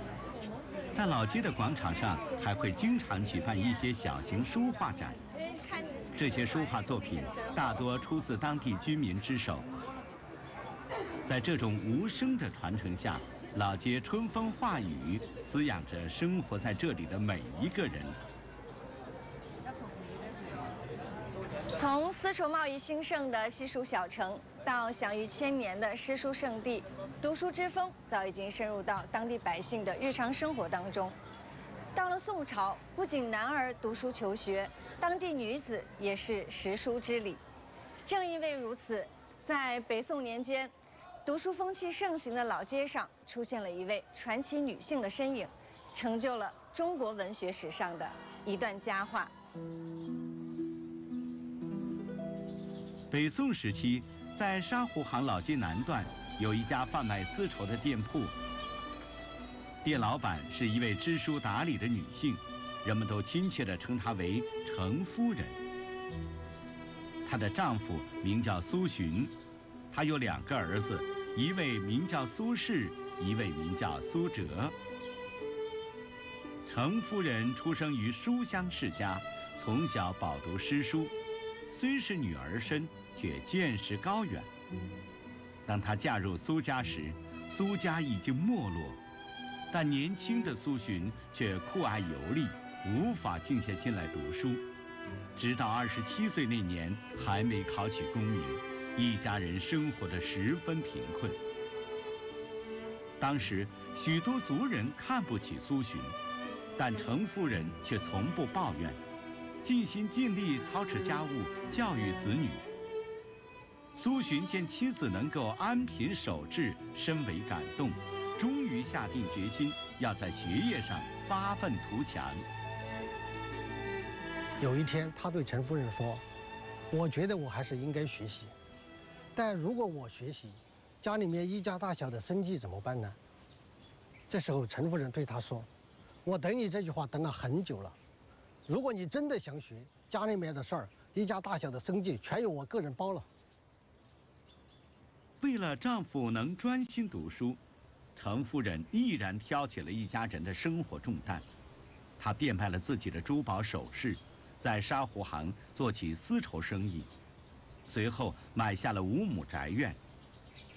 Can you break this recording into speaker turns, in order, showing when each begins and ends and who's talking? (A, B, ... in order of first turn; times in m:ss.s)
0:00.9-0:05.2 A
0:05.5-0:06.5 B
0:06.1-0:09.7 A
0:07.2-0:07.4 B
0:11.2-0:18.2 A
0:21.8-0:31.2 B
0:31.9-0:37.4 B
0:38.0-0:40.7 B
0:41.2-0:49.3 B
0:53.1-0:58.3 A
0:59.8-1:05.6 A
1:07.2-1:09.3 A
1:09.9-1:14.8 A
1:16.6-1:21.1 A
1:21.7-1:24.5 A
1:25.6-1:29.0 A
1:29.7-1:34.6 A
1:35.3-1:41.4 A
1:43.2-1:46.2 A
1:46.8-1:49.0 A
1:49.6-1:52.6 A
1:53.9-2:02.4 A
2:04.6-2:06.2 C
2:06.9-2:08.5 C
2:09.3-2:13.2 C
2:14.3-2:15.7 C
2:16.2-2:18.0 C
2:18.7-2:23.3 C
2:25.4-2:27.6 A
2:28.2-2:31.4 A
2:32.2-2:37.1 A
2:37.9-2:40.0 A